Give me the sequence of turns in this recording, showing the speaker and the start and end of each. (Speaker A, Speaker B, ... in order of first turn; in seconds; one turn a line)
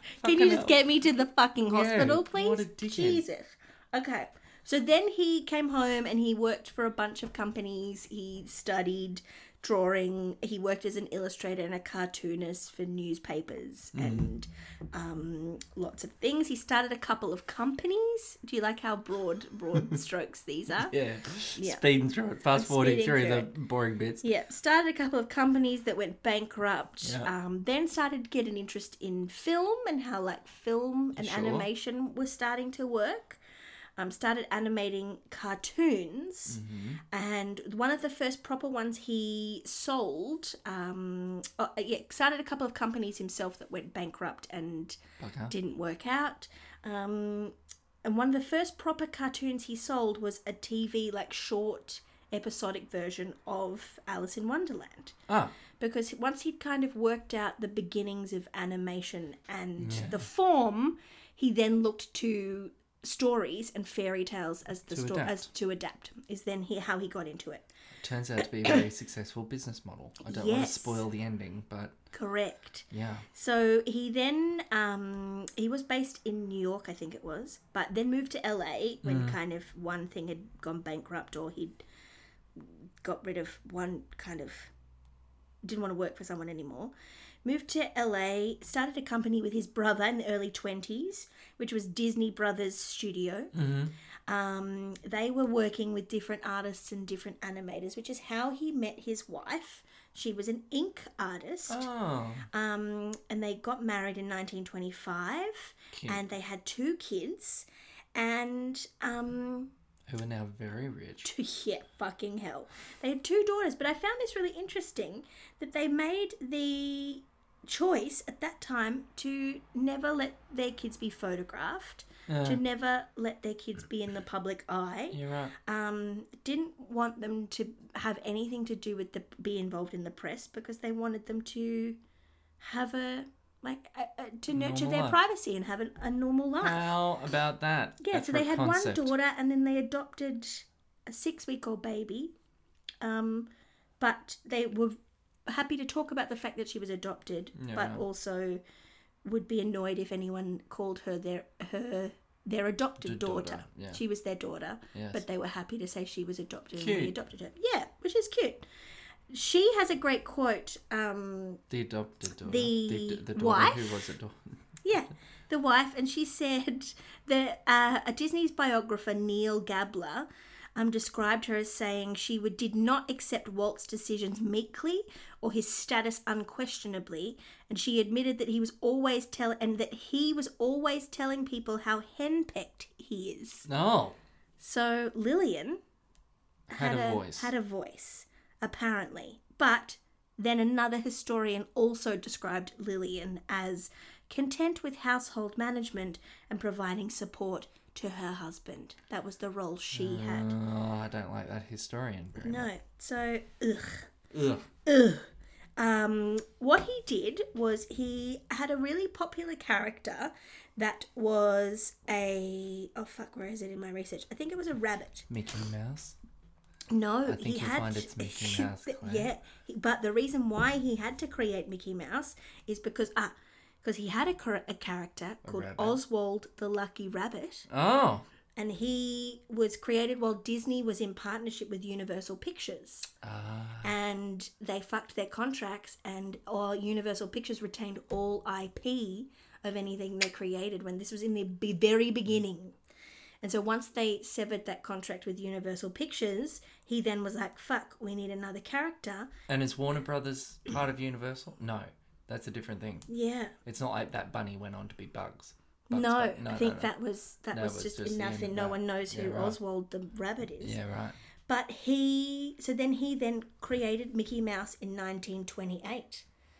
Speaker A: 0.2-20.9
Speaker B: 0.2-0.7
Speaker B: 1.7-3.2
Speaker B: 13.9-14.3
Speaker B: 20.8-24.3
Speaker A: 21.6-21.8
Speaker A: 22.5-23.5
Speaker A: 24.2-33.4
Speaker B: 27.0-27.3
Speaker B: 31.1-31.7
Speaker A: 34.0-36.6
Speaker B: 36.5-37.0
Speaker A: 37.1-55.1
Speaker B: 45.2-45.5
Speaker B: 55.3-55.5
Speaker A: 55.8-67.7
Speaker B: 59.8-60.2
Speaker B: 64.9-65.5
Speaker B: 68.0-71.9
Speaker A: 70.2-71.0
Speaker A: 72.1-81.8
Speaker B: 72.9-73.3
Speaker B: 79.0-79.4
Speaker A: 82.5-84.7
Speaker A: 85.6-93.5
Speaker B: 93.5-93.9
Speaker A: 94.3-101.8
Speaker B: 101.7-102.5
Speaker A: 102.5-109.7
Speaker B: 105.9-106.2
Speaker B: 110.1-111.3
Speaker A: 111.2-132.0
Speaker B: 122.3-122.6
Speaker B: 125.1-125.5
Speaker A: 132.6-136.8
Speaker B: 134.5-135.2
Speaker B: 136.6-139.1
Speaker A: 138.0-142.3
Speaker A: 143.0-148.6
Speaker B: 147.6-148.1
Speaker A: 149.2-158.7
Speaker B: 153.0-154.0
Speaker B: 154.9-155.2
Speaker B: 156.7-157.1
Speaker A: 159.3-161.6
Speaker B: 161.7-164.6
Speaker A: 162.4-164.1
Speaker A: 164.8-183.7
Speaker B: 183.7-184.2
Speaker A: 184.6-185.8
Speaker A: 186.7-200.5
Speaker B: 186.7-187.5
Speaker B: 199.9-202.7
Speaker A: 202.4-204.1
Speaker B: 204.3-204.7
Speaker A: 204.8-215.3
Speaker B: 215.3-216.2
Speaker A: 216.9-227.7
Speaker B: 217.2-219.3
Speaker B: 225.4-226.0
Speaker B: 227.7-228.2
Speaker A: 228.6-233.1
Speaker B: 233.2-233.9
Speaker A: 233.8-242.8
Speaker A: 243.4-249.3
Speaker B: 249.5-253.1
Speaker A: 253.1-253.5
Speaker B: 253.6-256.9
Speaker A: 255.9-260.8
Speaker B: 257.5-259.6
Speaker B: 260.6-261.2
Speaker A: 261.5-266.2